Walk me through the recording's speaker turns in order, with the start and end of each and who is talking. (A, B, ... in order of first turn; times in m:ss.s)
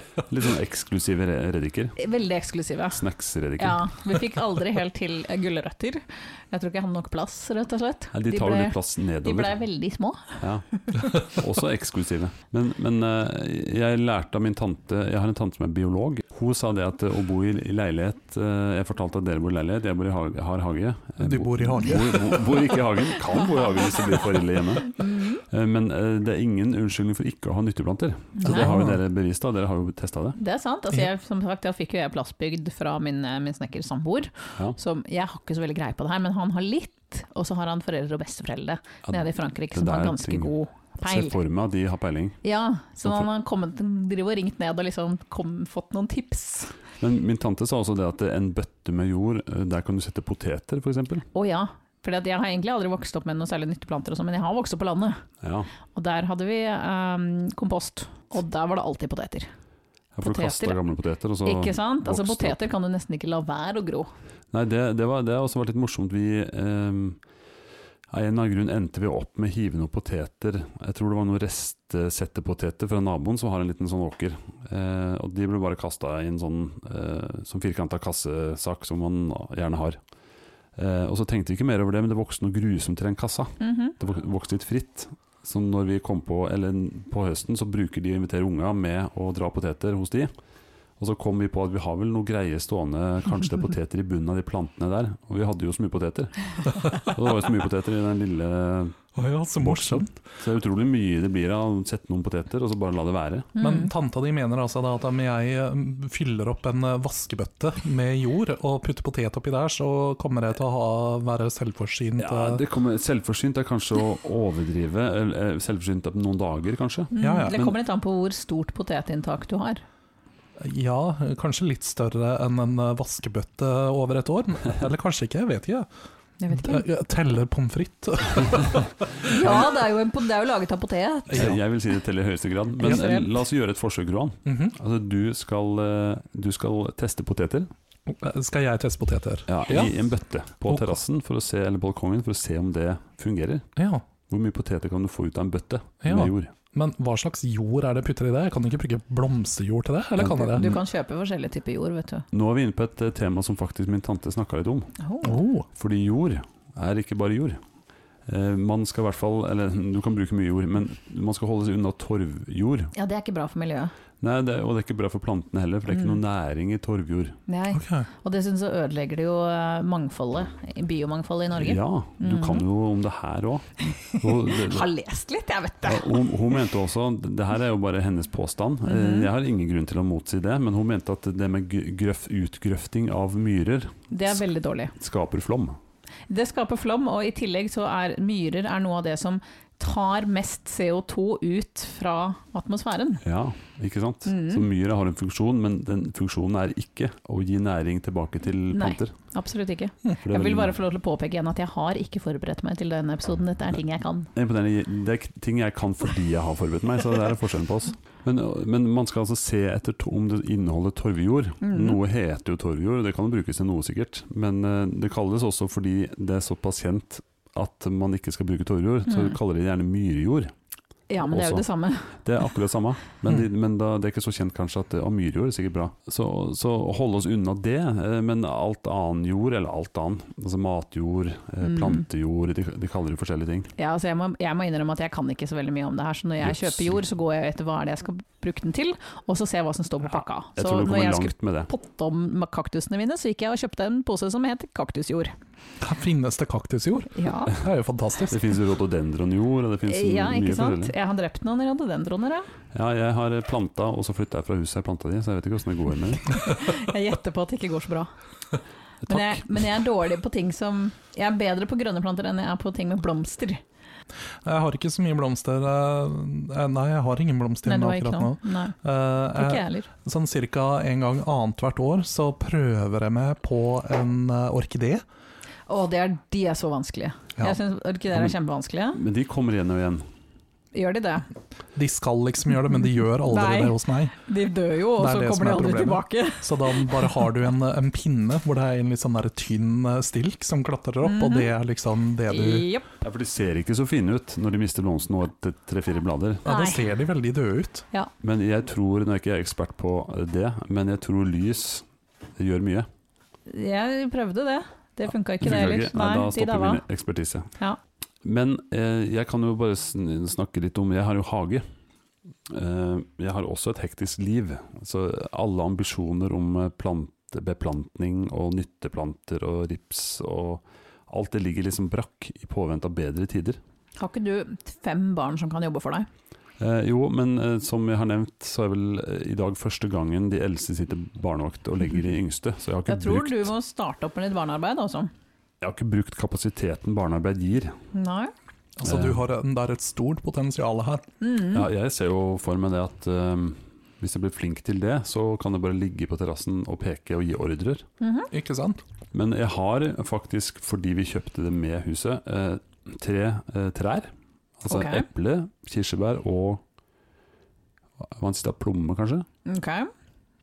0:00.2-0:02.0 A
0:02.0-0:03.0 B
0:02.9-0:03.9 A
0:03.6-0:11.1 B
0:08.1-0:09.5 A
0:10.4-0:10.6 A
0:11.2-0:30.4 A
0:21.2-0:22.8 C
0:24.8-0:25.4 B
0:28.4-0:28.7 B
0:28.4-0:29.0 C
0:30.4-0:41.4 B
0:39.1-0:40.5 A
0:41.0-0:42.4 A
0:42.4-0:46.8 B
0:47.0-0:51.3 A
0:51.3-0:55.2 B
0:55.4-0:55.7 A
0:55.9-0:59.5 B
1:00.1-1:02.6 A
1:00.2-1:00.8 B
1:01.4-1:04.1 B
1:04.5-1:07.2 A
1:08.1-1:20.0 A
1:20.8-1:30.3 A
1:23.6-1:23.9 B
1:31.0-1:39.0 A
1:39.1-1:40.1 C
1:39.6-1:43.5 A
1:43.6-1:43.9 B
1:43.6-1:52.6 C
1:52.2-1:57.8 A
1:57.1-1:59.8 B
1:57.2-1:57.6 C
2:00.6-2:05.9 C
2:06.4-2:06.8 B
2:06.5-2:09.7 C
2:09.2-2:11.6 B
2:11.3-2:11.6 C
2:11.3-2:17.7 A
2:12.8-2:13.3 B
2:14.4-2:14.8 C
2:18.1-2:20.0 C
2:19.5-2:23.7 A
2:20.7-2:21.0 C
2:23.8-2:24.0 C
2:24.3-2:26.5 A
2:26.0-2:30.7 C
2:30.2-2:30.8 A
2:30.5-2:32.2 B
2:32.3-2:34.9 A
2:35.0-2:35.4 B
2:35.2-2:35.7 C
2:35.7-2:37.6 A
2:38.2-2:42.9 A
2:42.9-2:43.9 B
2:44.2-2:47.4 A
2:45.9-2:46.2 B
2:47.5-2:52.6 B
2:47.7-2:48.1 C
2:51.5-2:54.9 A
2:53.8-2:56.3 B
2:55.8-3:04.4 A
2:58.8-2:59.3 B
3:04.1-3:04.9 B
3:05.0-3:05.8 A
3:06.3-3:13.2 B
3:13.2-3:19.1 A
3:14.2-3:14.6 B
3:18.7-3:24.3 B
3:20.2-3:20.7 A
3:24.3-3:40.5 A
3:31.6-3:32.0 B
3:39.1-3:39.4 B
3:41.1-3:42.1 B
3:41.3-3:41.6 A
3:42.2-3:53.7 A
3:51.6-3:52.0 B
3:53.8-4:05.3 B
3:56.4-3:57.0 A
4:00.6-4:01.7 A
4:05.8-4:08.4 C
4:07.1-4:07.5 B
4:08.3-4:10.9 A
4:09.9-4:12.5 B
4:12.7-4:16.4 A
4:16.2-4:18.1 B
4:19.0-4:19.6 A
4:19.1-4:23.6 B
4:24.4-4:35.0 C
4:27.6-4:28.8 B
4:29.3-4:29.9 B
4:35.7-4:39.0 B
4:38.9-4:40.0 A
4:40.7-4:41.3 B
4:41.7-4:44.1 C
4:43.0-4:47.2 B
4:45.0-4:52.7 C
4:51.0-4:51.5 B
4:52.3-4:52.8 B
4:53.0-4:56.4 A
4:56.4-4:56.8 B
4:56.4-4:57.8 C
4:58.2-5:01.8 A
5:02.4-5:02.9 A
5:03.5-5:06.8 B
5:05.4-5:07.5 A
5:08.2-5:11.6 A
5:12.5-5:23.6 A
5:24.0-5:26.1 B
5:26.6-5:33.5 A
5:32.9-5:35.1 B
5:35.6-5:37.8 A
5:37.9-5:38.3 B
5:38.8-5:41.0 C
5:38.8-5:39.2 A
5:41.2-5:41.7 B
5:41.5-5:47.8 A
5:48.0-5:48.3 B
5:48.3-5:48.8 C
5:49.1-5:56.6 A
5:54.7-5:55.0 B
5:58.0-5:59.2 A
5:59.4-5:59.9 B